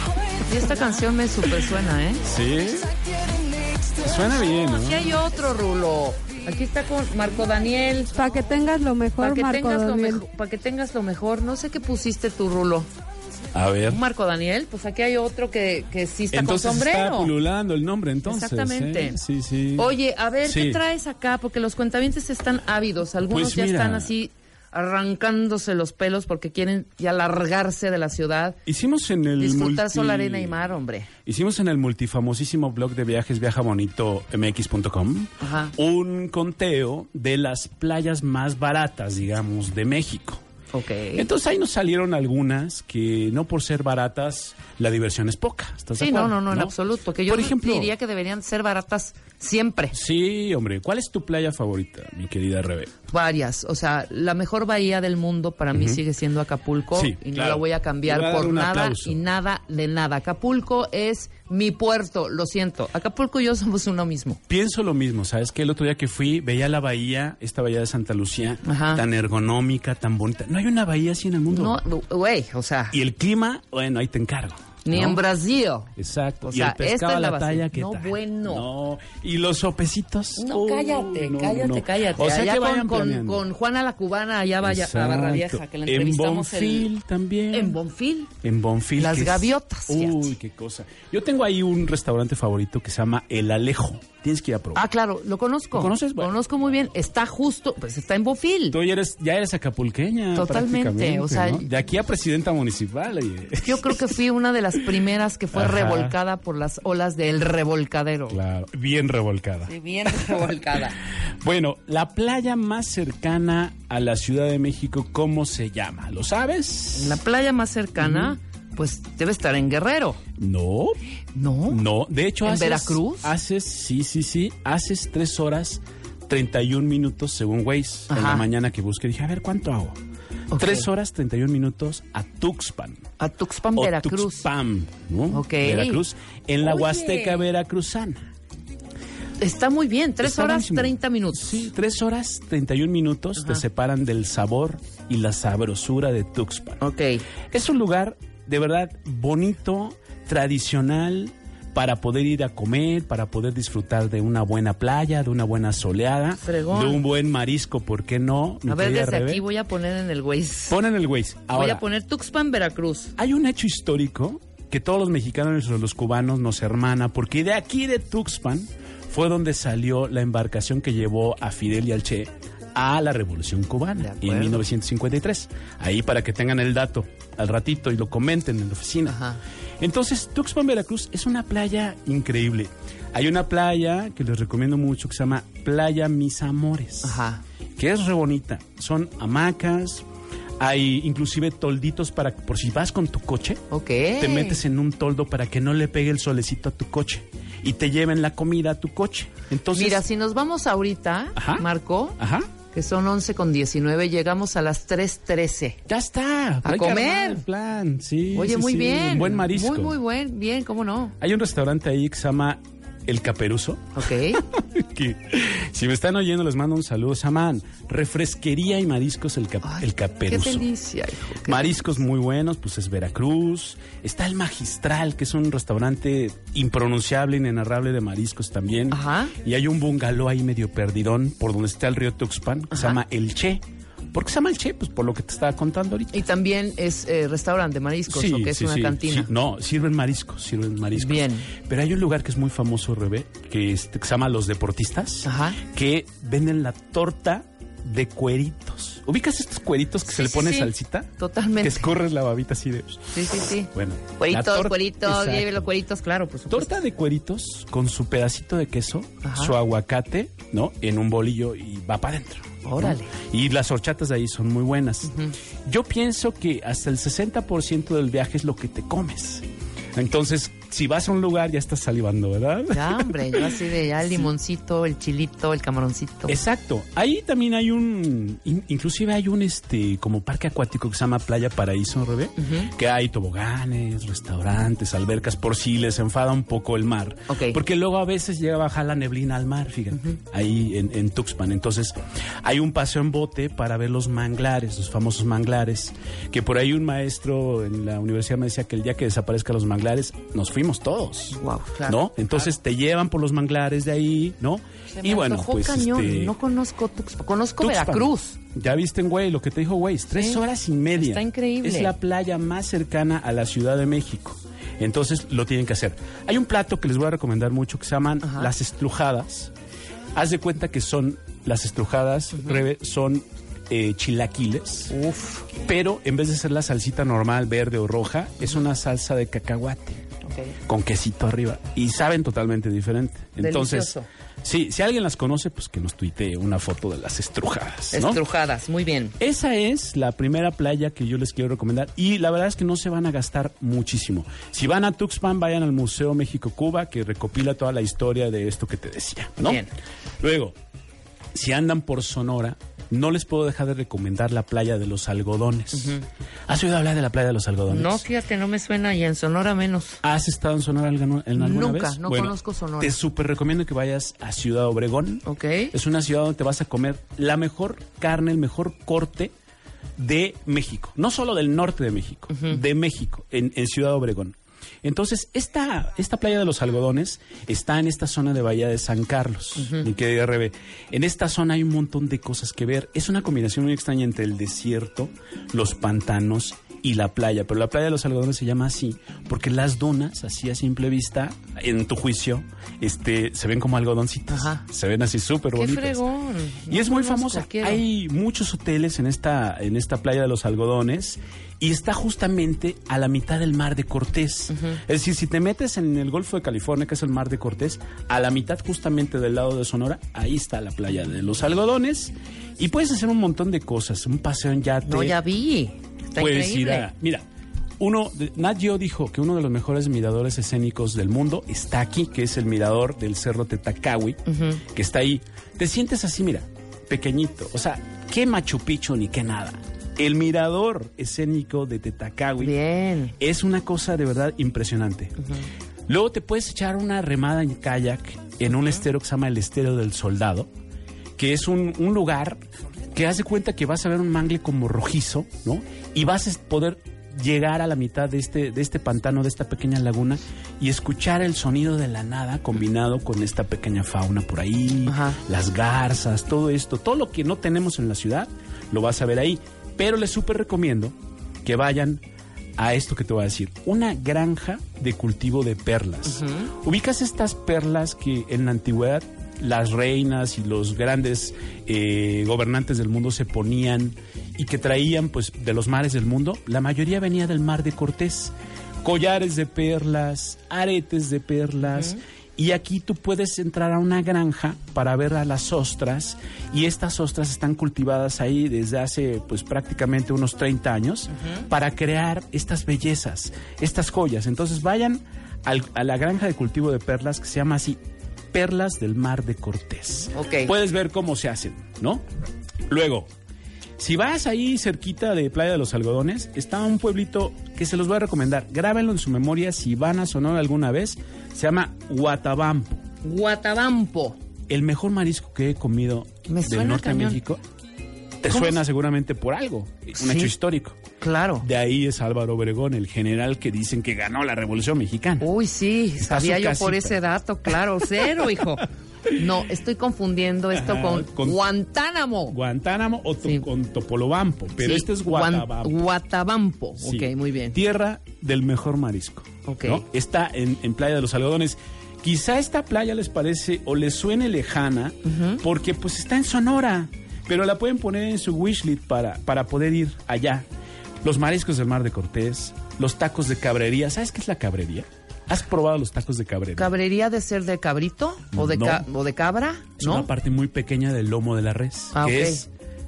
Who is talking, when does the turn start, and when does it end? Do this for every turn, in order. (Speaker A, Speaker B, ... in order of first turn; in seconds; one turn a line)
Speaker A: 0.1-1.1
Speaker B: 0.4-2.2
Speaker C: 2.2-2.9
Speaker A: 2.5-4.7
Speaker C: 4.0-5.1
Speaker B: 4.6-8.1
Speaker D: 8.1-10.2
Speaker B: 9.2-12.9
Speaker C: 13.5-14.0
Speaker B: 13.9-17.3
Speaker C: 16.3-19.9
Speaker B: 18.2-19.2
Speaker B: 19.8-28.6
Speaker C: 20.4-20.8
Speaker C: 23.2-24.1
Speaker C: 28.6-30.6
Speaker B: 29.4-31.1
Speaker C: 31.2-40.4
Speaker B: 35.4-35.7
Speaker B: 40.7-41.3
Speaker C: 41.1-47.9
Speaker B: 46.0-50.0
Speaker C: 49.9-52.9
Speaker B: 53.1-64.4
Speaker C: 55.7-56.0
Speaker C: 56.9-59.2
Speaker C: 64.5-71.8
Speaker B: 68.6-69.0
Speaker B: 71.5-73.0
Speaker C: 72.9-75.2
Speaker B: 74.8-75.9
Speaker C: 76.0-83.4
Speaker B: 76.4-78.7
Speaker B: 80.4-86.9
Speaker C: 84.6-87.8
Speaker B: 87.5-88.3
Speaker C: 88.4-94.8
Speaker B: 89.0-90.3
Speaker B: 94.7-98.8
Speaker C: 95.7-96.3
Speaker C: 98.7-104.2
Speaker B: 100.3-101.7
Speaker B: 103.6-108.4
Speaker C: 105.5-106.2
Speaker C: 108.3-110.5
Speaker B: 109.7-111.0
Speaker C: 111.2-117.2
Speaker B: 116.9-120.2
Speaker C: 118.0-118.3
Speaker C: 120.4-121.0
Speaker B: 121.3-121.8
Speaker C: 121.7-130.0
Speaker B: 122.4-123.3
Speaker B: 128.1-128.4
Speaker B: 130.5-130.9
Speaker C: 130.5-133.1
Speaker B: 133.2-134.5
Speaker C: 133.7-138.3
Speaker B: 135.3-136.0
Speaker B: 136.6-137.4
Speaker B: 139.4-141.7
Speaker C: 140.2-146.8
Speaker B: 143.4-143.6
Speaker B: 146.8-147.2
Speaker C: 147.5-159.4
Speaker B: 156.4-157.0
Speaker B: 158.7-160.8
Speaker C: 160.7-161.8
Speaker B: 161.5-163.1
Speaker C: 163.2-179.2
Speaker B: 174.0-174.6
Speaker B: 179.1-179.4
Speaker C: 179.8-187.2
Speaker B: 187.0-187.4
Speaker C: 187.8-190.0
Speaker C: 190.6-193.6
Speaker B: 193.7-194.6
Speaker C: 194.2-200.0
Speaker B: 199.7-202.2
Speaker C: 201.3-201.7
Speaker C: 202.2-202.5
Speaker B: 202.7-205.8
Speaker C: 205.9-209.9
Speaker B: 206.6-207.4
Speaker B: 208.3-211.1
Speaker C: 211.2-220.7
Speaker B: 213.9-214.4
Speaker B: 219.6-221.8
Speaker C: 221.4-236.2
Speaker B: 228.9-229.3
Speaker B: 232.7-233.0
Speaker B: 236.1-239.3
Speaker C: 238.1-255.7
Speaker B: 240.9-241.5
Speaker B: 245.2-245.6
Speaker B: 250.1-251.9
Speaker B: 253.1-256.8
Speaker C: 256.5-265.1
Speaker B: 259.2-259.6
Speaker B: 262.6-263.1
Speaker B: 265.1-265.3
Speaker C: 265.6-274.2
Speaker B: 272.7-276.4
Speaker C: 276.3-306.3
Speaker B: 282.4-282.7
Speaker B: 287.3-287.6
Speaker B: 301.3-302.5
Speaker B: 304.9-308.4
Speaker C: 307.6-319.5
Speaker B: 310.1-310.4
Speaker B: 311.0-311.9
Speaker B: 318.2-318.5
Speaker C: 320.1-324.9
Speaker B: 322.4-322.6
Speaker B: 324.9-325.5
Speaker C: 325.5-330.0
Speaker B: 330.2-330.5
Speaker C: 330.6-338.2
Speaker B: 333.4-334.1
Speaker B: 337.9-339.1
Speaker C: 339.2-349.6
Speaker B: 349.4-349.7
Speaker C: 350.2-350.6
Speaker C: 351.3-358.1
Speaker B: 355.8-356.0
Speaker B: 357.7-360.0
Speaker C: 360.0-369.3
Speaker B: 361.4-362.9
Speaker B: 365.2-365.7
Speaker C: 370.0-396.0
Speaker B: 372.3-372.6
Speaker B: 379.6-379.8
Speaker B: 394.3-394.6
Speaker B: 395.5-397.8
Speaker C: 396.7-415.2
Speaker B: 404.5-404.8
Speaker B: 414.8-416.9
Speaker C: 416.2-417.2
Speaker C: 417.8-432.6
Speaker B: 424.3-424.6
Speaker B: 432.4-433.1
Speaker C: 433.2-435.1
Speaker B: 435.2-435.4
Speaker C: 435.9-440.5
Speaker C: 441.2-442.4
Speaker C: 442.9-462.0
Speaker B: 454.9-455.2
Speaker C: 462.6-497.8
Speaker B: 466.1-466.5
Speaker B: 491.2-491.4
Speaker C: 498.3-502.0
Speaker B: 500.1-500.5
Speaker C: 502.7-503.1
Speaker C: 503.8-512.8
Speaker B: 513.0-514.2
Speaker C: 514.5-517.4
Speaker B: 516.3-517.2
Speaker C: 518.2-520.8
Speaker B: 518.3-518.6
Speaker B: 520.0-520.3
Speaker B: 521.0-521.5
Speaker C: 521.4-525.3
Speaker B: 525.2-532.4
Speaker C: 526.0-527.0
Speaker C: 530.5-531.4
Speaker C: 532.3-535.8
Speaker B: 534.6-537.6
Speaker C: 536.8-550.5
Speaker B: 539.4-539.8
Speaker B: 545.0-545.4
Speaker C: 551.0-556.7
Speaker B: 556.6-560.1
Speaker C: 558.3-558.9
Speaker C: 559.8-562.5
Speaker B: 561.9-562.4